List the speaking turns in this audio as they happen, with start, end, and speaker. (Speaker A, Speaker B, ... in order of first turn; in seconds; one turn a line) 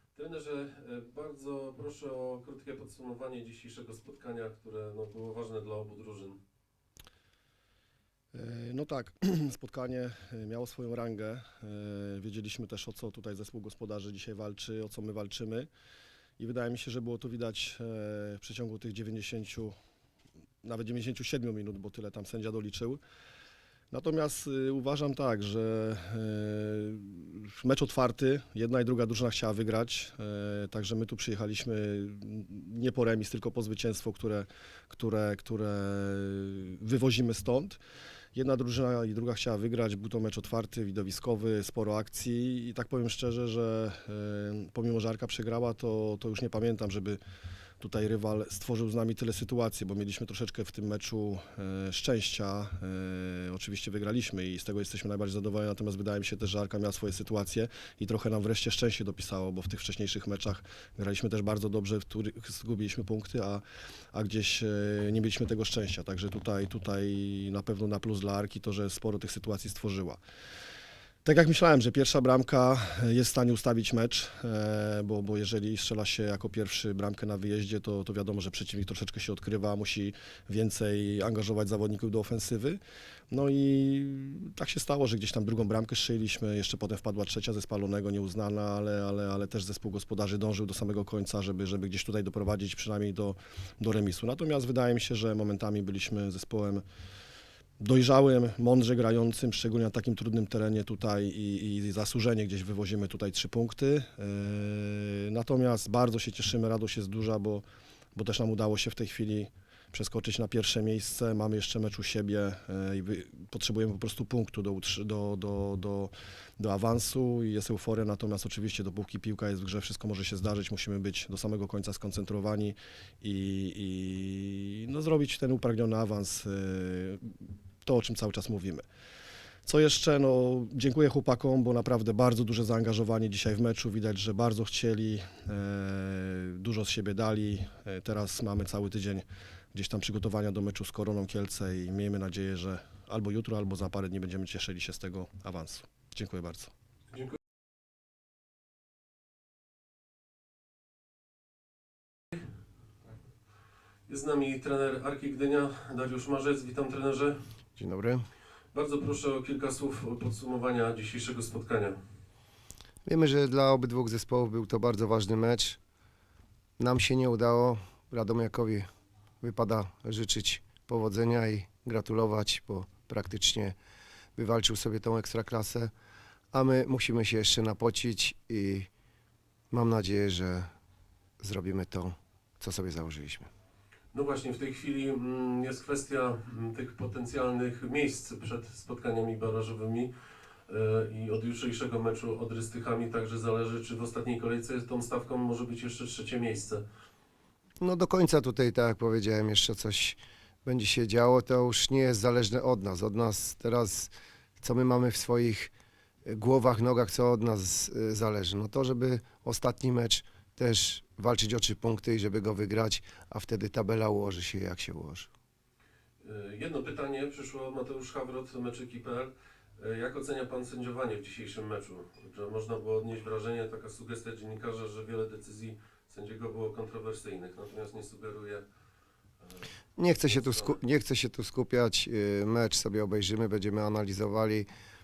Speaker A: 0.1-6.4
Speaker B: 8.3-15.7
Speaker B: 16.4-19.7
Speaker B: 20.6-23.0
Speaker B: 23.9-37.8
Speaker B: 38.3-47.2
Speaker B: 47.8-63.6
Speaker B: 64.1-70.2
Speaker B: 71.2-82.8
Speaker B: 83.3-96.8
Speaker B: 97.8-107.6
Speaker B: 108.1-128.8
Speaker B: 129.6-146.7
Speaker A: 154.1-157.4
Speaker C: 157.8-158.2
Speaker A: 158.7-162.0
Speaker C: 163.1-165.8
Speaker C: 166.8-168.8
Speaker C: 169.4-173.8
Speaker C: 174.3-175.9
Speaker C: 176.5-178.9
Speaker C: 179.7-180.7
Speaker C: 181.4-183.5
Speaker A: 184.1-190.1
Speaker A: 190.7-196.8
Speaker C: 197.8-205.7
Speaker C: 206.2-215.3
Speaker A: 216.2-228.6
Speaker C: 230.0-234.7
Speaker A: 230.2-230.8